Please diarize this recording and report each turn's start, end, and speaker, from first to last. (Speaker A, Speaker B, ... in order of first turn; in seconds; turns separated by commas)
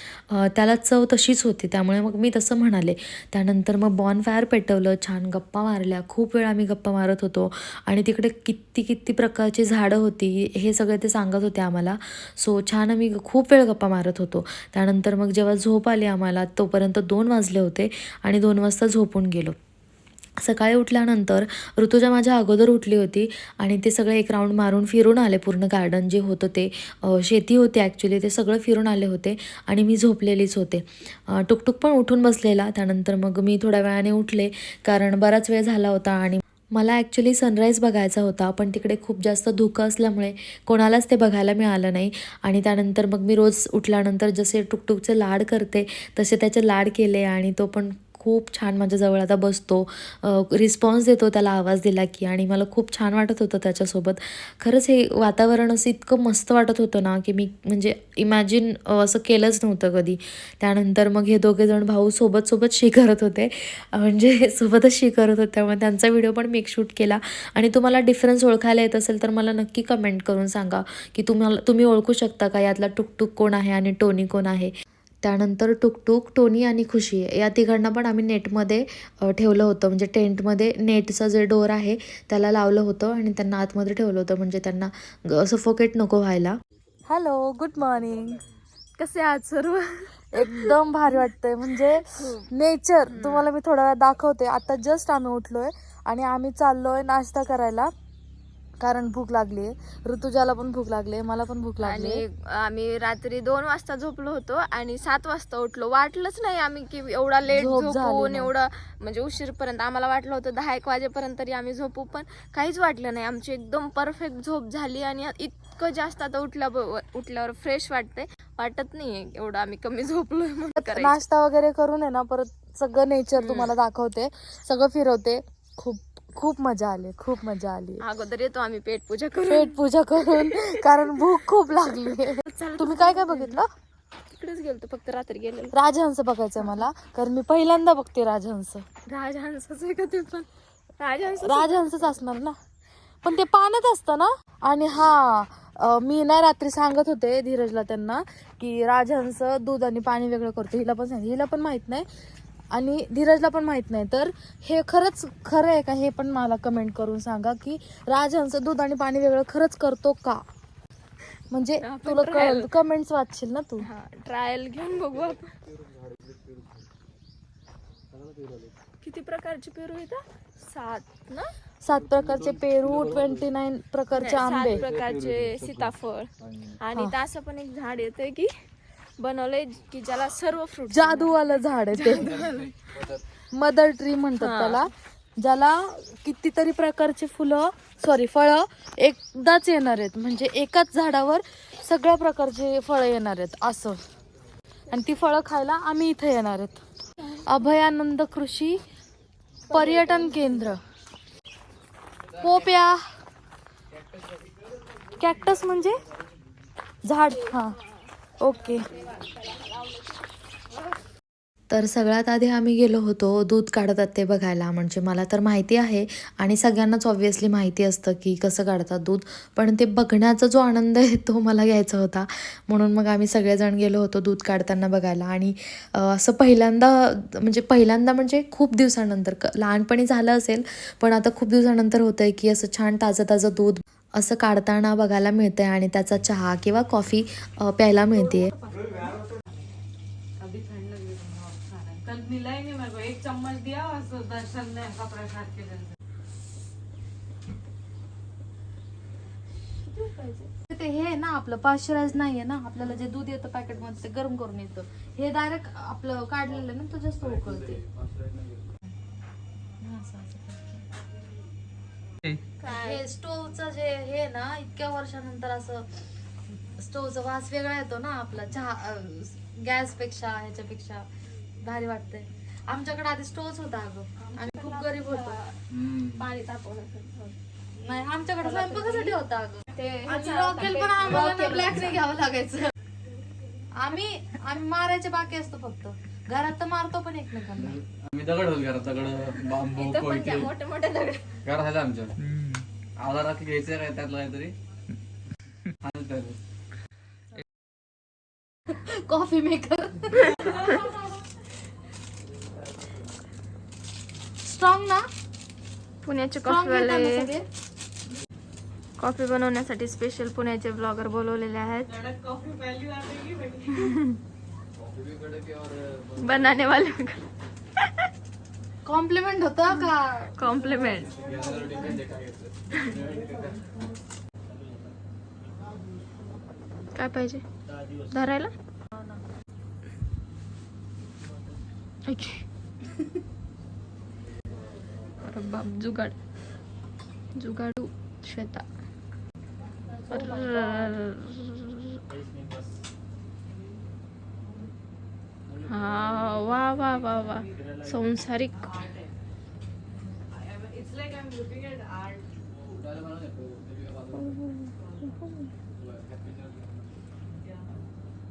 Speaker A: 0.3-19.6, Speaker A: 20.4-74.7, Speaker A: 75.2-86.6, Speaker B: 87.1-88.4, Speaker C: 89.0-90.8, Speaker B: 90.3-97.9, Speaker C: 91.8-92.5, Speaker C: 93.1-93.5, Speaker B: 98.8-102.2, Speaker C: 101.8-121.2, Speaker B: 107.5-108.5, Speaker B: 120.9-128.0, Speaker C: 123.4-123.7, Speaker C: 128.0-130.8, Speaker B: 129.5-133.7, Speaker C: 132.1-133.6, Speaker C: 134.3-135.7, Speaker B: 135.7-138.8, Speaker C: 136.6-136.9, Speaker C: 139.1-140.5, Speaker C: 141.0-142.0, Speaker B: 141.4-142.6, Speaker B: 143.2-152.1, Speaker B: 152.7-160.4, Speaker B: 161.5-163.9, Speaker C: 161.8-162.7, Speaker C: 163.8-165.5, Speaker D: 165.0-166.9, Speaker D: 168.1-168.7, Speaker C: 169.0-171.5, Speaker B: 171.8-174.8, Speaker D: 171.9-173.5, Speaker C: 174.2-178.5, Speaker D: 174.4-176.8, Speaker C: 179.2-182.7, Speaker B: 180.9-182.4, Speaker D: 182.2-183.2, Speaker B: 183.5-194.0, Speaker C: 184.4-184.9, Speaker B: 194.9-198.8, Speaker B: 199.7-200.8, Speaker C: 199.7-200.7, Speaker B: 202.4-203.0, Speaker B: 205.2-206.0, Speaker B: 207.0-207.7, Speaker C: 207.4-208.1, Speaker B: 208.4-208.9, Speaker C: 208.6-211.0, Speaker A: 211.7-238.5, Speaker B: 238.3-238.9, Speaker E: 238.8-239.4, Speaker E: 240.4-245.9, Speaker C: 249.8-250.5, Speaker B: 250.7-257.8, Speaker D: 256.5-258.7, Speaker B: 259.8-260.8, Speaker C: 262.6-263.0, Speaker B: 262.7-265.9, Speaker B: 266.8-271.1, Speaker B: 271.6-275.4, Speaker C: 274.2-275.6, Speaker D: 275.7-276.2, Speaker C: 276.1-277.4, Speaker B: 277.8-282.7, Speaker C: 278.4-279.2, Speaker C: 279.7-282.0, Speaker B: 283.7-287.8, Speaker D: 287.6-290.5, Speaker C: 289.6-291.4, Speaker D: 291.4-292.2, Speaker D: 293.0-294.5, Speaker D: 295.8-296.4, Speaker B: 298.7-300.9, Speaker B: 304.4-305.1, Speaker C: 306.0-307.3, Speaker B: 306.4-307.4, Speaker C: 309.0-312.0, Speaker E: 311.9-313.8, Speaker C: 313.8-314.1, Speaker D: 314.7-316.9, Speaker C: 316.2-317.2, Speaker B: 318.8-320.3, Speaker C: 319.7-321.2, Speaker D: 321.0-323.6, Speaker C: 326.9-327.4, Speaker C: 328.1-328.5, Speaker B: 328.9-329.2, Speaker C: 332.1-332.4, Speaker C: 335.2-336.1, Speaker C: 337.4-338.6, Speaker B: 340.1-341.0, Speaker C: 340.1-342.0, Speaker C: 345.6-348.9, Speaker D: 345.9-346.4, Speaker E: 350.5-352.2, Speaker D: 352.4-354.4, Speaker E: 354.8-355.1, Speaker D: 355.7-357.0